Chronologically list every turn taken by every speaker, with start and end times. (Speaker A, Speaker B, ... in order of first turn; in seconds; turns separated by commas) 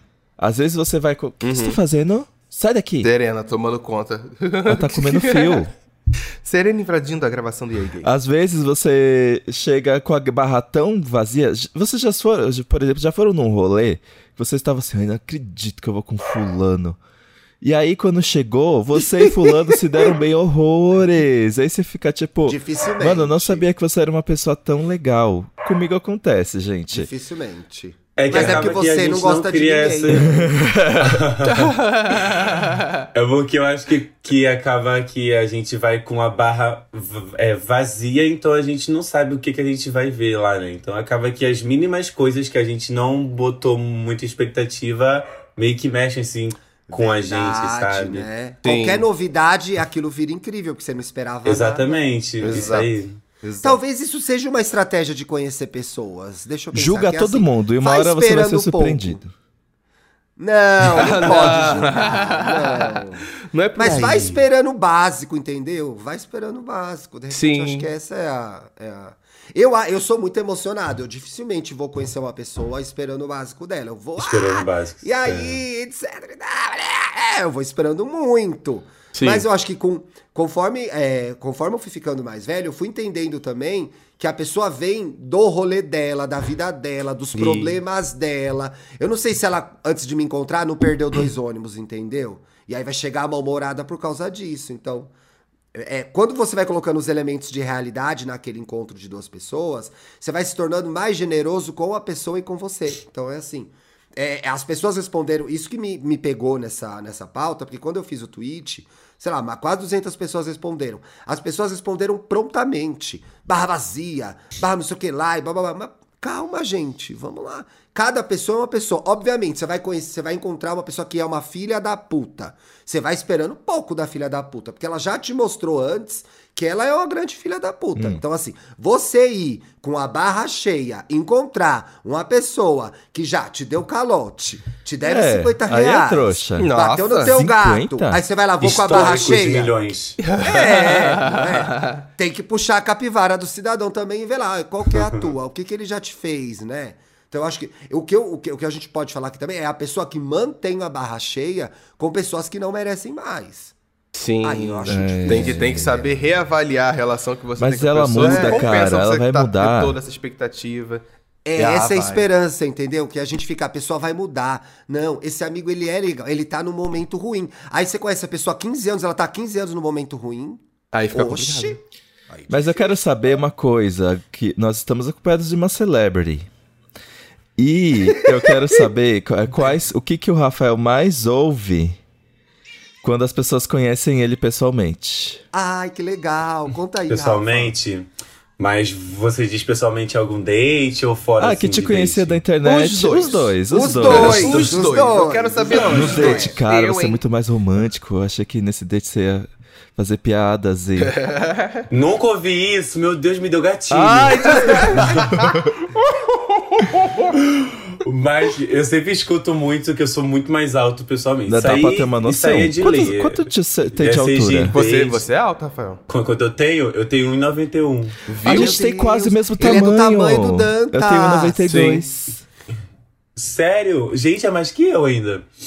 Speaker A: 0.4-3.1, Speaker B: 1.4-1.8, Speaker B: 3.0-5.7, Speaker A: 4.7-5.7, Speaker B: 6.4-8.1, Speaker A: 8.0-17.0, Speaker A: 17.6-27.1, Speaker C: 22.4-23.6, Speaker C: 26.9-30.5, Speaker D: 28.1-30.4, Speaker A: 30.1-31.3, Speaker D: 31.0-32.5, Speaker B: 31.6-32.9, Speaker D: 33.1-48.3, Speaker C: 46.9-52.8, Speaker B: 48.6-49.1, Speaker D: 51.4-53.2, Speaker B: 52.4-52.9, Speaker B: 53.4-53.8, Speaker C: 53.6-59.2, Speaker A: 56.7-59.3, Speaker C: 60.4-95.1, Speaker B: 60.9-64.4, Speaker B: 67.3-67.9, Speaker D: 74.2-75.6, Speaker B: 79.1-79.4, Speaker B: 87.4-87.7, Speaker C: 95.7-139.7, Speaker A: 128.0-128.2, Speaker A: 135.0-138.2, Speaker B: 136.6-137.4, Speaker D: 138.6-140.2, Speaker B: 140.2-141.9, Speaker C: 140.4-153.7, Speaker B: 154.1-161.0, Speaker C: 154.4-156.1, Speaker A: 154.8-156.1, Speaker A: 157.6-160.0, Speaker C: 158.2-158.7, Speaker C: 161.4-170.6, Speaker B: 161.6-162.3, Speaker B: 170.9-171.8, Speaker C: 171.1-171.8, Speaker C: 172.3-172.9, Speaker A: 172.5-176.5, Speaker A: 177.6-182.0, Speaker A: 183.0-185.4, Speaker C: 185.5-187.7, Speaker D: 187.1-192.4, Speaker A: 191.4-194.7, Speaker B: 192.6-197.2, Speaker C: 193.7-196.6, Speaker A: 195.8-201.2, Speaker B: 201.0-201.8, Speaker D: 201.9-205.4, Speaker A: 203.9-205.7, Speaker B: 206.3-207.3, Speaker D: 207.3-215.2, Speaker A: 211.5-214.7, Speaker B: 214.7-216.0, Speaker D: 216.1-218.2, Speaker B: 218.3-218.7, Speaker A: 218.4-222.4, Speaker C: 218.4-221.8, Speaker B: 221.7-222.0, Speaker D: 223.3-225.4